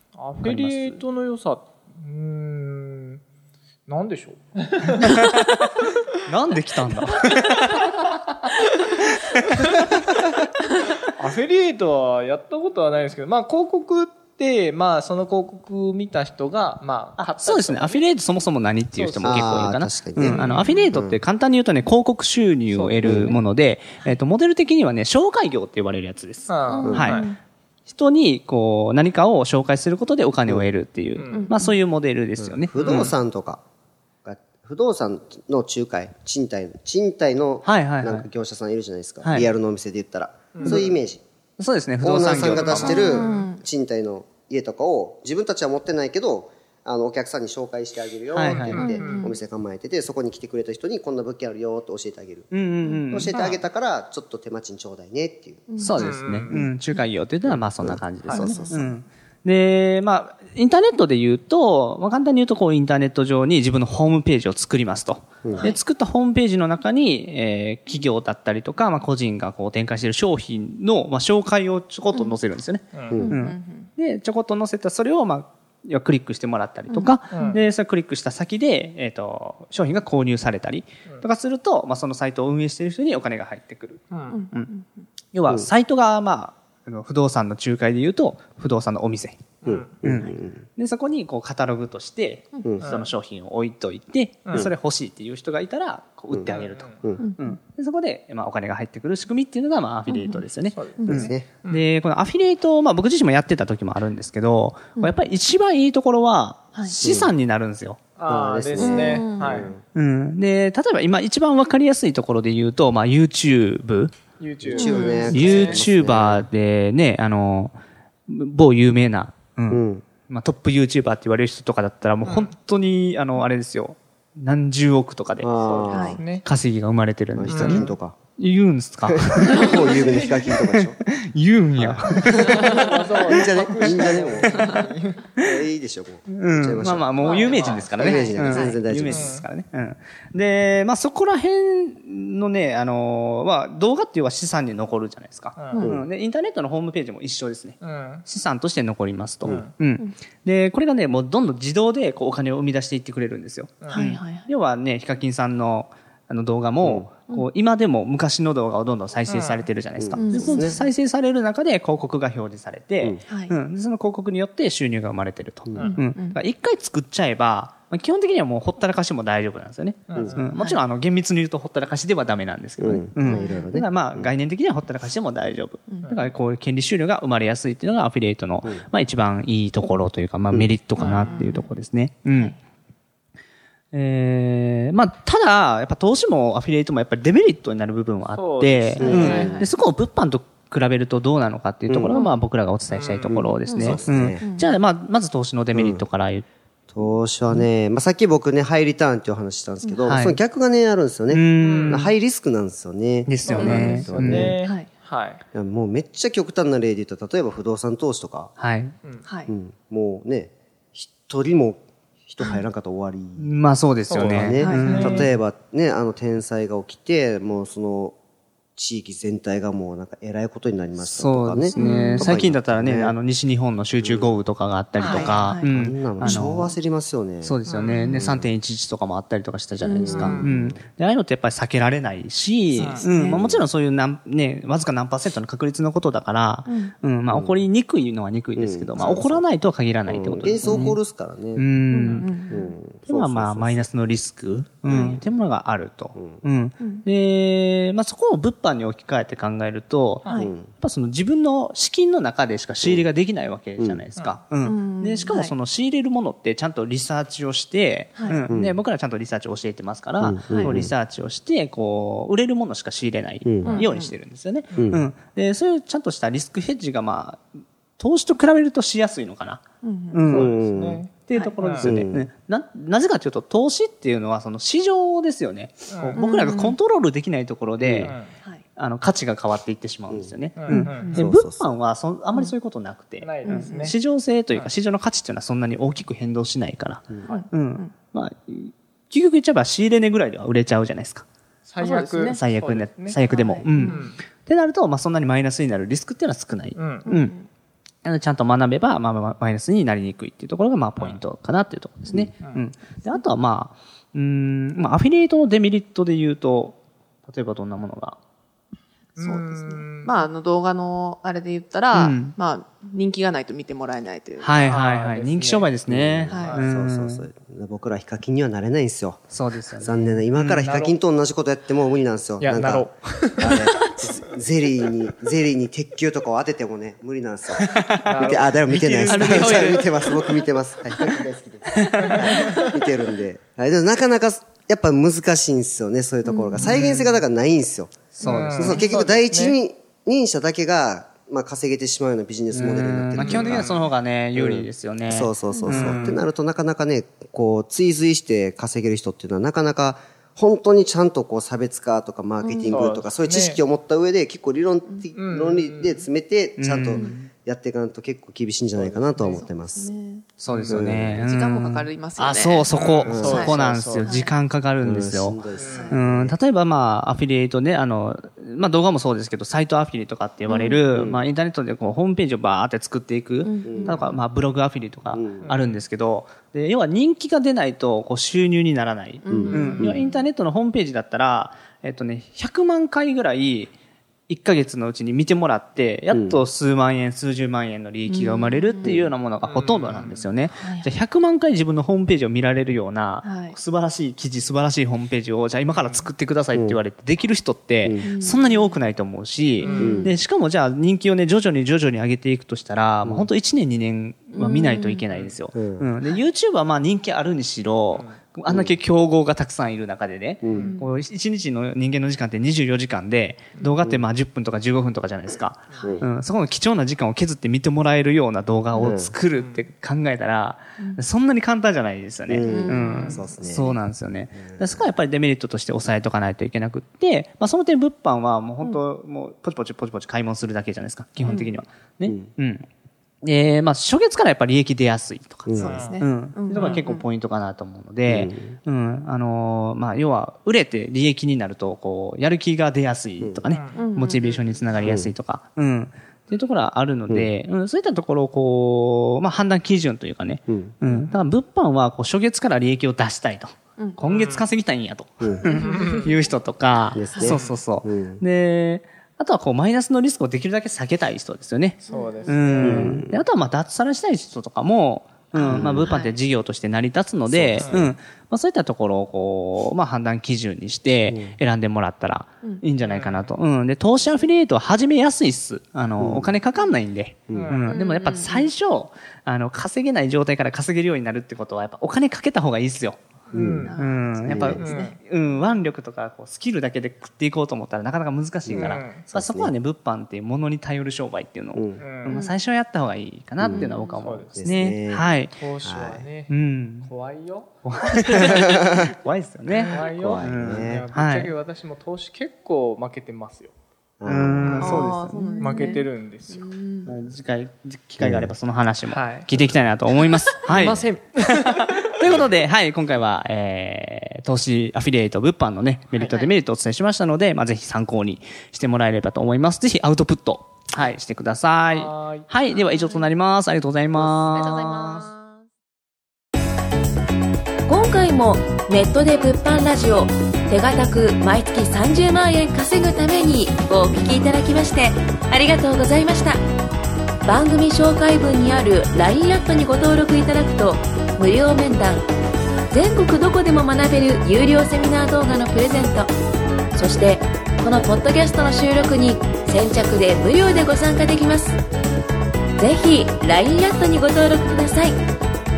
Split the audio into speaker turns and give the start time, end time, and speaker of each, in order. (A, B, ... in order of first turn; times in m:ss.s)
0:00.2-0:03.2 A
0:00.4-0:01.0 B
0:03.9-0:05.5 A
0:06.2-0:08.2 B
0:07.8-0:08.1 A
0:08.7-0:10.2 A
0:09.1-0:09.6 B
0:11.0-0:18.0 A
0:17.2-0:27.2 B
0:19.0-0:19.6 A
0:19.2-0:21.2 C
0:20.2-0:20.6 A
0:20.4-0:20.9 D
0:22.7-0:23.4 A
0:23.0-0:23.4 C
0:26.5-0:27.3 A
0:26.7-0:27.4 D
0:26.8-0:27.2 C
0:27.9-0:33.1 B
0:31.2-0:31.5 A
0:31.3-0:31.7 D
0:32.4-0:33.6 C
0:32.8-0:33.1 A
0:34.2-0:41.2 C
0:37.6-0:38.3 B
0:39.2-0:39.5 B
0:40.6-0:41.0 A
0:41.6-0:43.2 B
0:42.0-0:55.7 C
0:42.5-0:43.4 A
0:42.8-0:43.6 D
0:48.3-0:48.9 B
0:48.5-0:49.4 A
0:48.8-0:49.4 D
0:52.5-0:53.4 B
0:53.3-0:53.6 A
0:55.7-0:56.0 D
0:55.8-1:24.7 B
0:55.9-0:56.6 A
0:57.5-0:59.0 C
0:58.3-0:58.6 A
1:05.4-1:05.7 C
1:12.9-1:13.3 A
1:13.1-1:13.4 C
1:13.2-1:13.9 D
1:16.9-1:17.6 D
1:17.3-1:17.6 A
1:24.1-1:24.4 A
1:24.3-1:24.8 D
1:25.3-1:48.0 B
1:29.6-1:30.0 A
1:29.6-1:30.6 C
1:32.6-1:32.9 C
1:32.8-1:33.1 A
1:36.5-1:37.1 A
1:37.2-1:37.6 D
1:40.1-1:40.5 D
1:40.6-1:41.8 A
1:41.0-1:41.5 C
1:47.0-1:47.3 C
1:48.2-1:49.7 A
1:48.3-1:49.8 C
1:48.8-1:49.5 D
1:49.9-1:54.2 B
1:54.4-1:55.9 A
1:54.6-1:56.5 C
1:54.8-1:55.2 D
1:55.2-1:57.8 B
1:58.3-2:05.5 B
1:59.7-2:00.1 C
2:05.4-2:06.2 C
2:05.6-2:06.4 A
2:05.9-2:06.2 D
2:06.3-2:09.7 B
2:07.4-2:08.2 C
2:07.5-2:07.9 A
2:09.1-2:11.0 C
2:09.6-2:10.7 A
2:11.0-2:13.1 B
2:11.8-2:14.8 C
2:12.4-2:15.3 A
2:13.8-2:14.8 B
2:15.4-2:19.4 C
2:16.3-3:02.6 B
2:17.2-2:18.1 A
2:17.2-2:17.5 D
2:18.1-2:18.8 D
2:19.1-2:19.4 A
2:25.6-2:25.9 A
2:25.8-2:26.1 C
2:27.8-2:28.2 A
2:33.8-2:34.1 A
2:33.9-2:34.5 D
2:36.8-2:37.1 C
2:39.3-2:39.6 A
2:40.0-2:40.8 C
2:40.2-2:40.9 D
2:43.3-2:43.6 D
2:45.7-2:45.9 C
2:45.8-2:46.4 D
2:50.1-2:50.5 A
2:50.5-2:50.8 D
2:52.8-2:54.3 C
2:53.3-2:53.7 D
3:01.0-3:01.7 D
3:03.9-3:16.4 B
3:08.3-3:09.5 A
3:09.0-3:09.7 C
3:09.2-3:09.7 D
3:11.9-3:12.2 C
3:12.1-3:12.4 D
3:12.9-3:13.4 A
3:13.3-3:14.4 C
3:13.7-3:14.8 D
3:15.7-3:16.0 C
3:16.9-3:24.6 C
3:20.0-3:20.4 B
3:21.3-3:22.1 B
3:21.6-3:22.1 A
3:23.3-3:24.6 B
3:23.4-3:25.4 A
3:23.6-3:24.9 D
3:25.5-3:28.5 C
3:28.6-3:28.9 B
3:29.2-3:29.5 D
3:29.5-3:33.6 C
3:33.4-3:35.3 B
3:34.1-3:35.3 A
3:34.1-3:38.2 C
3:34.6-3:34.9 D
3:38.8-3:43.2 C
3:41.0-3:46.8 B
3:41.7-3:42.3 D
3:44.0-3:44.4 C
3:45.0-3:45.3 A
3:45.0-3:45.7 D
3:45.0-3:48.5 C
3:47.4-4:01.0 B
3:47.7-3:48.1 A
3:47.7-3:48.3 D
3:49.8-3:50.7 D
3:49.9-3:50.8 C
3:50.1-3:50.5 A
3:52.8-3:53.7 C
3:52.8-3:53.2 A
3:56.7-3:56.9 D
3:57.3-3:57.7 C
3:58.6-3:59.5 C
4:00.1-4:01.7 C
4:01.6-4:02.3 B
4:01.9-4:02.8 D
4:02.0-4:02.3 A
4:02.5-4:03.9 C
4:03.0-4:27.4 B
4:04.9-4:05.2 C
4:06.2-4:06.4 C
4:06.8-4:07.0 D
4:10.4-4:10.7 C
4:13.8-4:14.0 C
4:14.6-4:15.5 D
4:18.5-4:18.8 C
4:20.2-4:20.9 C
4:20.5-4:20.8 D
4:23.4-4:23.8 C
4:23.6-4:24.2 D
4:24.8-4:25.0 C
4:28.0-4:30.6 B
4:29.8-4:30.3 D
4:30.3-4:31.9 A
4:30.3-4:31.0 C
4:31.2-4:38.2 B
4:31.8-4:32.3 C
4:35.9-4:36.3 A
4:36.1-4:36.8 D
4:37.8-4:38.1 C
4:38.0-4:38.3 A
4:38.4-4:38.6 D
4:38.8-4:51.3 B
4:40.1-4:40.4 C
4:40.6-4:41.2 A
4:40.7-4:41.2 D
4:41.1-4:41.7 C
4:43.2-4:44.0 A
4:43.4-4:43.9 D
4:47.3-4:47.9 D
4:51.7-4:54.2 A
4:51.8-4:52.4 D
4:52.3-4:57.3 B
4:53.3-4:54.0 D
4:56.8-4:57.1 A
4:57.0-4:57.4 D
4:58.0-5:08.2 B
5:09.2-5:14.6 D
5:09.2-5:10.2 A
5:11.9-5:12.4 B
5:14.4-5:17.2 B
5:14.6-5:15.7 A
5:15.9-5:19.3 C
5:16.3-5:16.6 D
5:19.3-5:20.6 B
5:19.8-5:43.8 C
5:20.6-5:21.0 A
5:22.4-5:23.9 A
5:27.6-5:28.1 B
5:27.9-5:30.4 A
5:29.0-5:29.9 B
5:31.7-5:32.4 B
5:32.0-5:32.8 A
5:36.2-5:36.5 D
5:36.6-5:37.1 A
5:36.6-5:36.9 B
5:38.2-5:38.9 B
5:38.2-5:39.6 A
5:42.5-5:46.2 B
5:43.2-5:43.8 A
5:44.4-5:59.9 C
5:45.7-5:46.2 A
5:52.4-5:52.8 D
5:52.7-5:53.6 A
5:55.1-5:56.0 A
5:56.6-5:57.3 B
5:58.8-5:59.4 A
5:59.2-6:00.2 D
6:00.4-6:23.7 B
6:00.5-6:00.9 A
6:00.7-6:01.2 C
6:01.1-6:02.8 D
6:02.7-6:04.3 A
6:03.0-6:03.6 C
6:03.3-6:04.4 D
6:04.8-6:06.4 C
6:05.6-6:05.9 A
6:05.7-6:06.0 D
6:10.5-6:10.8 D
6:10.9-6:11.2 C
6:13.4-6:14.2 D
6:13.6-6:14.1 C
6:15.1-6:15.6 C
6:15.4-6:15.8 A
6:19.2-6:20.2 D
6:19.3-6:20.0 C
6:19.5-6:20.0 A
6:24.3-7:12.7 B
6:26.1-6:26.4 C
6:28.1-6:28.9 D
6:28.8-6:29.1 C
6:29.4-6:30.3 A
6:30.5-6:30.9 D
6:33.2-6:33.6 D
6:35.7-6:36.0 A
6:36.5-6:36.8 C
6:37.8-6:38.1 C
6:38.0-6:38.8 D
6:39.6-6:40.0 A
6:39.8-6:40.1 C
6:43.0-6:43.3 C
6:44.3-6:45.0 D
6:45.1-6:45.3 A
6:45.5-6:45.9 C
6:47.9-6:48.2 A
6:48.5-6:48.8 C
6:50.4-6:50.7 C
6:50.5-6:50.8 A
6:55.7-6:56.0 A
6:55.8-6:56.1 C
6:58.8-6:59.2 C
6:59.3-6:59.6 A
7:02.3-7:03.8 C
7:02.4-7:03.2 D
7:02.8-7:03.2 A
7:04.3-7:04.9 C
7:11.3-7:11.6 D
7:12.0-7:12.3 C
7:13.2-8:03.0 B
7:15.5-7:15.9 C
7:15.6-7:17.1 D
7:15.6-7:16.0 A
7:16.5-7:16.8 A
7:18.1-7:18.6 C
7:23.5-7:23.9 A
7:23.7-7:24.4 D
7:24.8-7:25.2 C
7:30.5-7:30.8 C
7:33.8-7:34.1 D
7:34.0-7:34.5 A
7:35.5-7:35.8 D
7:35.5-7:36.1 A
7:36.9-7:38.2 C
7:37.2-7:37.6 A
7:41.8-7:43.0 A
7:41.9-7:42.3 D
7:42.6-7:43.2 C
7:45.4-7:46.1 D
7:45.4-7:45.9 C
7:47.3-7:48.0 C
7:47.6-7:47.9 A
7:51.1-7:51.4 C
7:52.8-7:53.3 A
7:56.0-7:56.4 C
7:57.3-7:57.6 C
7:57.3-7:57.7 A
7:57.6-7:58.5 D
8:03.3-8:04.6 C
8:03.3-8:05.0 A
8:03.3-8:05.0 D
8:03.8-8:15.4 B
8:08.5-8:09.6 C
8:08.5-8:09.0 A
8:11.5-8:11.8 C
8:11.8-8:12.3 A
8:12.1-8:12.4 D
8:13.4-8:13.7 C
8:13.6-8:14.0 D
8:14.0-8:14.5 A
8:14.4-8:15.1 C
8:15.2-8:17.5 A
8:15.6-8:16.0 C
8:16.3-8:16.9 B
8:17.6-8:21.3 B
8:18.0-8:18.4 A
8:18.2-8:18.9 C
8:19.5-8:23.5 A
8:19.7-8:20.9 C
8:24.0-8:24.8 C
8:24.1-8:25.4 B
8:24.4-8:26.5 A
8:24.5-8:26.9 D
8:26.9-8:45.1 B
8:28.0-8:28.3 C
8:28.9-8:29.3 A
8:30.4-8:32.2 A
8:30.5-8:30.8 C
8:41.7-8:42.8 A
8:44.6-8:45.3 D
8:47.7-8:56.4 E
8:57.2-9:02.1 E
9:02.7-9:06.1 E
9:06.7-9:11.6 E
9:12.6-9:15.0 E